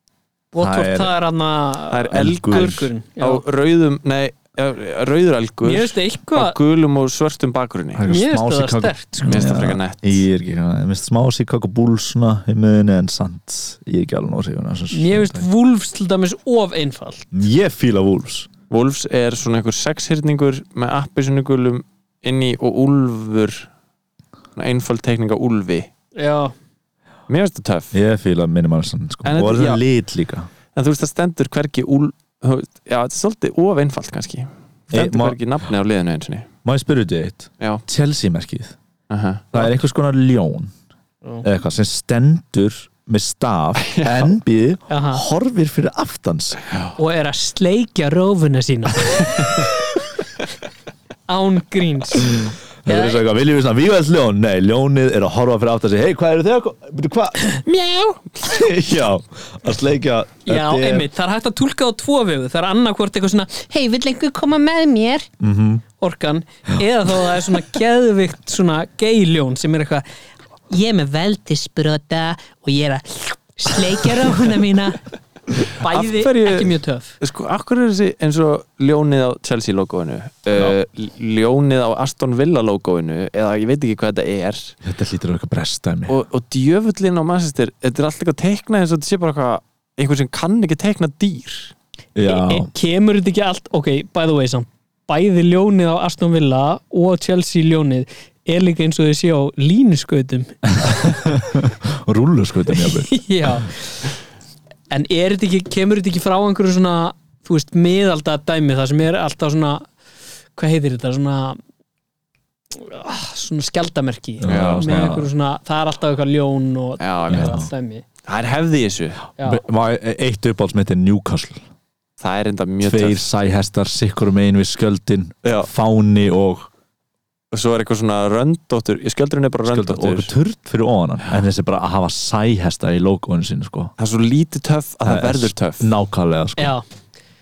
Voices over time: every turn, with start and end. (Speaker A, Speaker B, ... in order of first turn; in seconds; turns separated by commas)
Speaker A: 0.5-3.4, Speaker B: 0.6-1.1, Speaker C: 1.9-8.1, Speaker B: 2.1-2.9, Speaker A: 5.6-6.6, Speaker B: 7.9-15.5, Speaker A: 8.1-9.5, Speaker C: 9.2-10.2, Speaker A: 14.9-17.3, Speaker B: 17.3-18.5, Speaker C: 18.7-23.7, Speaker C: 24.6-25.9, Speaker A: 26.1-26.5, Speaker C: 27.3-27.9, Speaker B: 27.9-30.5, Speaker C: 29.2-29.8, Speaker C: 30.7-36.5, Speaker B: 34.9-35.4, Speaker B: 36.6-38.8, Speaker C: 39.1-39.5, Speaker B: 39.5-40.7, Speaker B: 41.4-46.6, Speaker C: 44.0-44.2, Speaker A: 44.9-45.2, Speaker A: 47.0-49.7, Speaker A: 51.3-53.2, Speaker B: 52.8-57.6, Speaker C: 57.6-58.6, Speaker B: 58.4-61.1, Speaker A: 60.5-65.3, Speaker B: 65.4-65.8, Speaker A: 66.0-70.0, Speaker A: 70.7-75.0, Speaker A: 75.7-77.1, Speaker C: 75.8-84.8, Speaker B: 84.8-86.1, Speaker C: 86.1-91.7, Speaker B: 92.1-92.7, Speaker A: 92.2-100.5, Speaker B: 100.8-103.6, Speaker A: 102.7-104.0, Speaker A: 104.9-109.9, Speaker A: 110.5-111.6, Speaker A: 112.7-118.0, Speaker B: 114.4-115.3, Speaker C: 114.5-115.1, Speaker C: 117.0-117.6, Speaker B: 117.3-117.7, Speaker C: 118.2-119.2, Speaker A: 119.4-119.6, Speaker B: 119.4-121.6, Speaker C: 122.2-123.2, Speaker B: 122.8-126.7, Speaker C: 125.4-125.7, Speaker C: 127.5-130.3, Speaker B: 129.7-133.9, Speaker C: 134.0-135.9, Speaker B: 135.0-136.7, Speaker A: 136.6-136.8